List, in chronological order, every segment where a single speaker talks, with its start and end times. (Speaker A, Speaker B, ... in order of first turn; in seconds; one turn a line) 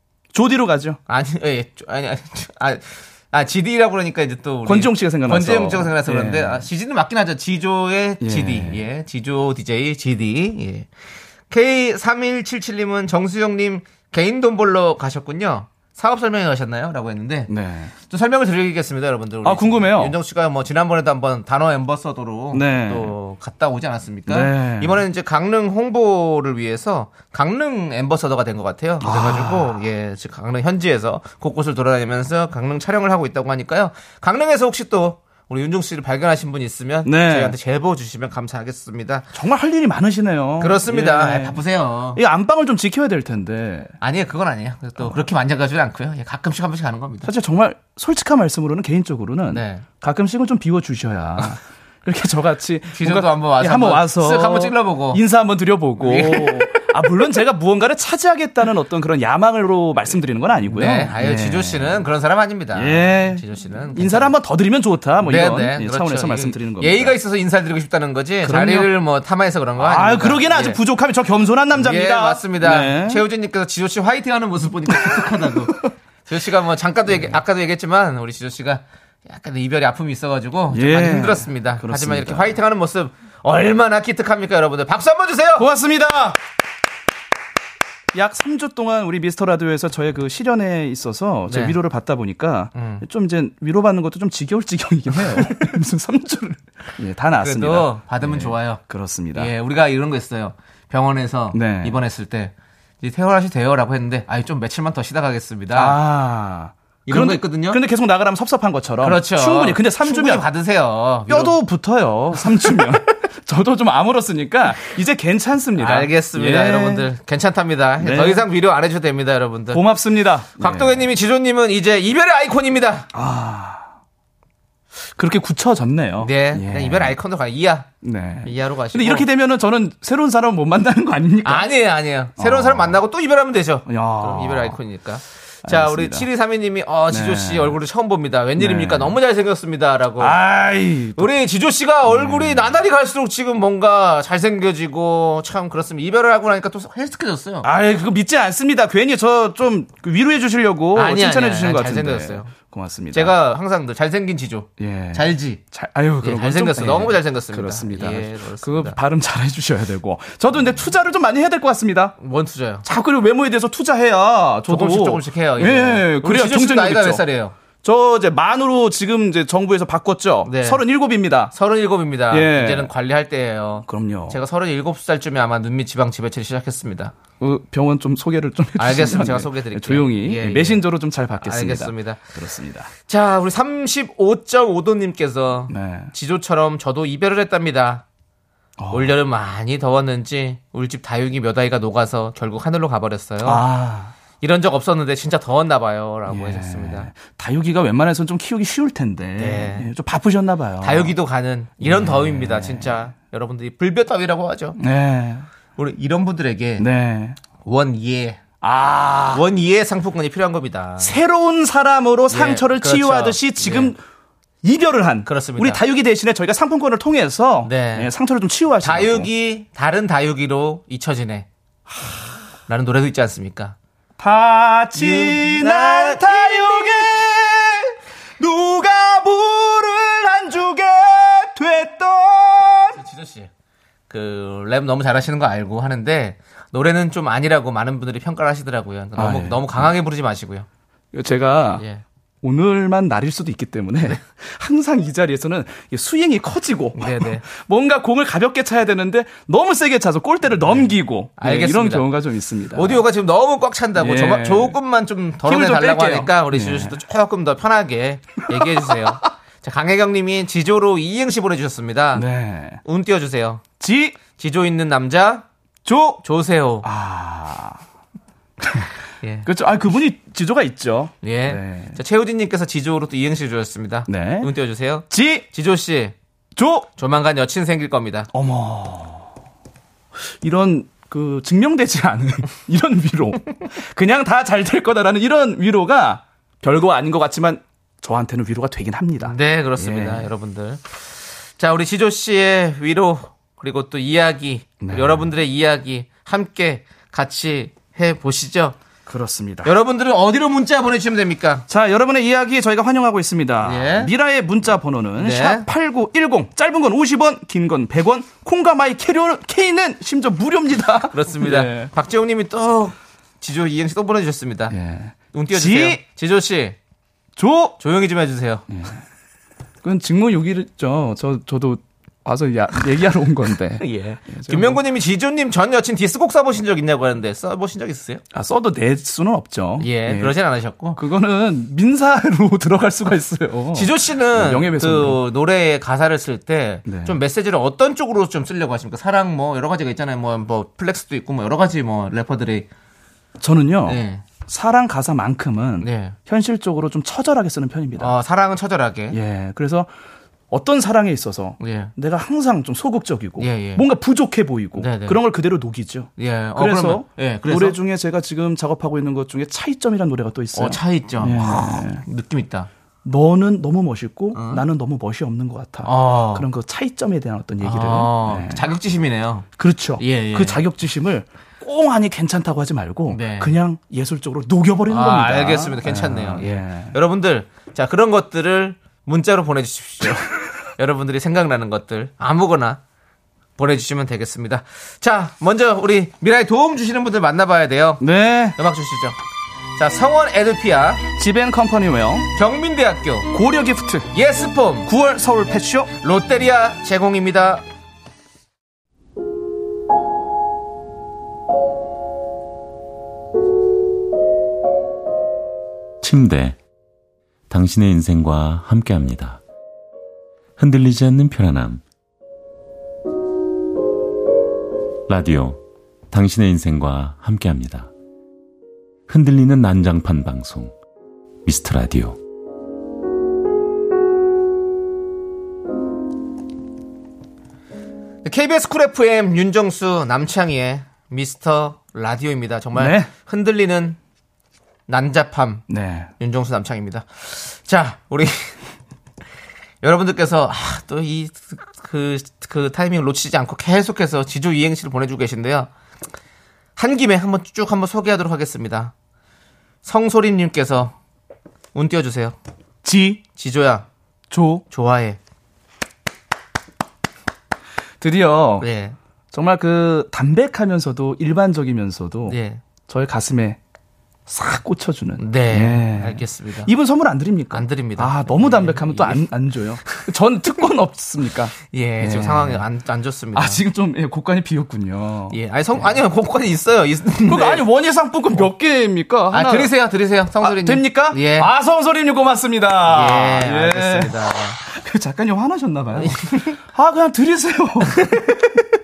Speaker A: 0.3-1.0
Speaker B: 1.1-10.9
Speaker A: 4.7-6.6
Speaker A: 8.2-8.8
Speaker B: 11.5-17.5
Speaker A: 17.5-17.9
Speaker B: 18.1-39.3
Speaker A: 19.4-20.1
Speaker A: 22.5-23.1
Speaker A: 24.3-25.0
Speaker A: 29.0-29.8
Speaker A: 37.0-37.5
Speaker A: 39.3-41.6
Speaker B: 40.6-42.2
Speaker A: 42.1-43.9
Speaker B: 44.0-47.3
Speaker A: 47.2-62.0
Speaker B: 49.5-49.9
Speaker B: 52.9-55.2
Speaker B: 56.0-56.9
Speaker B: 60.7-64.3
Speaker A: 62.7-63.4
Speaker A: 63.9-67.1
Speaker B: 65.2-70.8
Speaker A: 68.4-68.9
Speaker A: 69.8-73.2
Speaker B: 71.7-85.7
Speaker A: 80.7-82.5
Speaker A: 85.6-86.4
Speaker A: 88.1-99.5
Speaker B: 91.5-91.8
Speaker B: 92.7-93.0
Speaker B: 97.3-98.8
Speaker B: 99.3-106.0
Speaker A: 101.5-102.0
Speaker A: 105.7-110.4
Speaker B: 107.1-107.8
Speaker B: 109.0-111.6
Speaker A: 111.3-117.1
Speaker B: 112.3-113.0
Speaker B: 115.8-119.8
Speaker A: 118.0-118.5
Speaker A: 119.7-121.1
Speaker B: 120.6-123.1
Speaker A: 123.1-123.9
Speaker A: 125.2-127.2
Speaker B: 126.2-127.9
Speaker A: 128.0-131.7
Speaker B: 128.4-129.2
Speaker B: 131.4-140.4
Speaker A: 132.4-133.0
Speaker A: 133.8-134.8
Speaker A: 135.6-136.3
Speaker A: 137.1-137.8
Speaker A: 138.6-139.2
Speaker A: 140.2-141.3
Speaker B: 141.2-147.7
Speaker A: 142.1-142.8
Speaker A: 147.6-153.3
Speaker B: 150.9-152.5
Speaker B: 153.1-155.6
Speaker A: 154.8-162.1
Speaker B: 156.2-159.0
Speaker B: 162.2-162.8
Speaker A: 162.8-167.2
Speaker B: 164.7-167.5
Speaker A: 167.8-171.5
Speaker B: 170.4-170.8
Speaker B: 171.5-177.1
Speaker A: 172.3-172.9
Speaker A: 173.9-174.4
Speaker A: 177.4-182.9
Speaker B: 178.8-180.8
Speaker B: 181.4-182.2
Speaker B: 183.1-188.0
Speaker A: 185.7-186.1
Speaker A: 188.8-189.1
Speaker B: 188.9-193.6
Speaker A: 193.4-194.1
Speaker B: 194.4-197.1
Speaker A: 196.3-201.1
Speaker B: 199.4-199.9
Speaker B: 200.8-204.8
Speaker A: 201.8-202.9
Speaker A: 204.8-205.4
Speaker B: 205.8-206.8
Speaker A: 206.8-207.4
Speaker B: 207.6-208.4
Speaker A: 208.6-209.4
Speaker B: 209.3-211.1
Speaker A: 211.0-214.0
Speaker B: 212.3-213.9
Speaker A: 214.6-219.3
Speaker B: 215.2-215.8
Speaker B: 217.6-218.1
Speaker B: 218.8-221.5
Speaker B: 222.7-223.8
Speaker A: 224.2-233.0
Speaker B: 224.9-227.1
Speaker B: 232.9-233.5
Speaker B: 234.1-240.7
Speaker A: 239.2-239.9
Speaker A: 241.1-241.8
Speaker B: 241.8-242.0
Speaker A: 242.4-253.0
Speaker B: 246.9-247.4
Speaker B: 250.7-252.1
Speaker B: 252.7-262.2
Speaker A: 254.0-254.8
Speaker A: 255.4-257.0
Speaker A: 262.1-262.8
Speaker B: 262.8-263.6
Speaker A: 263.8-264.2
Speaker B: 264.4-265.4
Speaker A: 265.8-266.2
Speaker B: 266.2-266.9
Speaker A: 266.8-267.8
Speaker A: 268.6-268.9
Speaker B: 269.2-269.5
Speaker A: 269.4-272.0
Speaker B: 271.2-276.1
Speaker A: 274.1-274.5
Speaker A: 275.1-275.4
Speaker A: 276.6-276.9
Speaker B: 277.0-278.3
Speaker A: 278.3-279.3
Speaker A: 280.4-290.3
Speaker B: 289.2-291.1
Speaker B: 291.6-298.8
Speaker A: 294.8-295.3
Speaker A: 299.1-299.7
Speaker B: 299.6-301.6
Speaker A: 301.7-311.9
Speaker B: 303.6-304.1
Speaker B: 305.2-305.6
Speaker B: 311.1-314.7
Speaker A: 314.7-316.0
Speaker B: 315.3-316.8
Speaker A: 317.4-317.8
Speaker B: 317.8-318.6
Speaker A: 318.7-319.0
Speaker A: 319.8-324.8
Speaker B: 323.8-328.2
Speaker A: 328.3-330.3
Speaker B: 329.8-331.0
Speaker A: 330.9-335.2
Speaker B: 333.7-342.7
Speaker A: 336.9-337.2
Speaker A: 343.4-348.1
Speaker B: 343.8-344.2
Speaker B: 345.8-346.1
Speaker B: 348.0-349.2
Speaker A: 349.1-349.9
Speaker A: 350.5-362.0
Speaker B: 351.6-351.9
Speaker B: 353.4-353.8
Speaker B: 354.8-355.2
Speaker B: 356.2-357.8
Speaker B: 360.5-362.7
Speaker A: 363.0-368.6
Speaker B: 364.3-364.6
Speaker B: 365.8-366.5
Speaker B: 367.6-369.5
Speaker A: 369.6-376.9
Speaker B: 370.0-370.6
Speaker B: 373.1-373.5
Speaker B: 374.9-380.2
Speaker B: 380.8-382.8
Speaker B: 383.6-388.0
Speaker A: 388.0-388.6
Speaker B: 388.5-389.1
Speaker B: 389.8-391.0
Speaker A: 391.2-392.3
Speaker B: 392.3-393.3
Speaker A: 393.3-394.1
Speaker B: 394.1-394.9
Speaker A: 394.9-395.9
Speaker B: 396.0-397.6
Speaker C: 406.0-406.6
Speaker C: 407.5-409.4
Speaker C: 410.6-411.8
Speaker C: 415.1-417.9
Speaker C: 419.1-420.7
Speaker C: 421.4-422.2
Speaker B: 428.2-434.0
Speaker A: 432.8-433.1
Speaker B: 434.9-435.6
Speaker A: 435.7-436.1
Speaker B: 436.2-438.5
Speaker B: 439.8-445.7
Speaker B: 446.8-448.9
Speaker B: 449.8-450.9
Speaker B: 451.7-452.4
Speaker A: 452.8-453.2
Speaker B: 453.4-453.9
Speaker A: 454.3-454.6
Speaker B: 454.7-455.2
Speaker A: 458.0-458.7
Speaker B: 458.6-458.9
Speaker A: 459.3-463.6
Speaker B: 462.3-462.6
Speaker A: 464.3-472.6
Speaker B: 465.2-466.7
Speaker B: 467.5-469.2
Speaker B: 471.7-473.6
Speaker A: 473.3-475.8
Speaker B: 475.3-477.6
Speaker A: 477.3-479.7
Speaker B: 479.3-481.5
Speaker A: 480.4-488.4
Speaker B: 482.9-484.6
Speaker B: 485.9-486.6
Speaker B: 487.9-488.3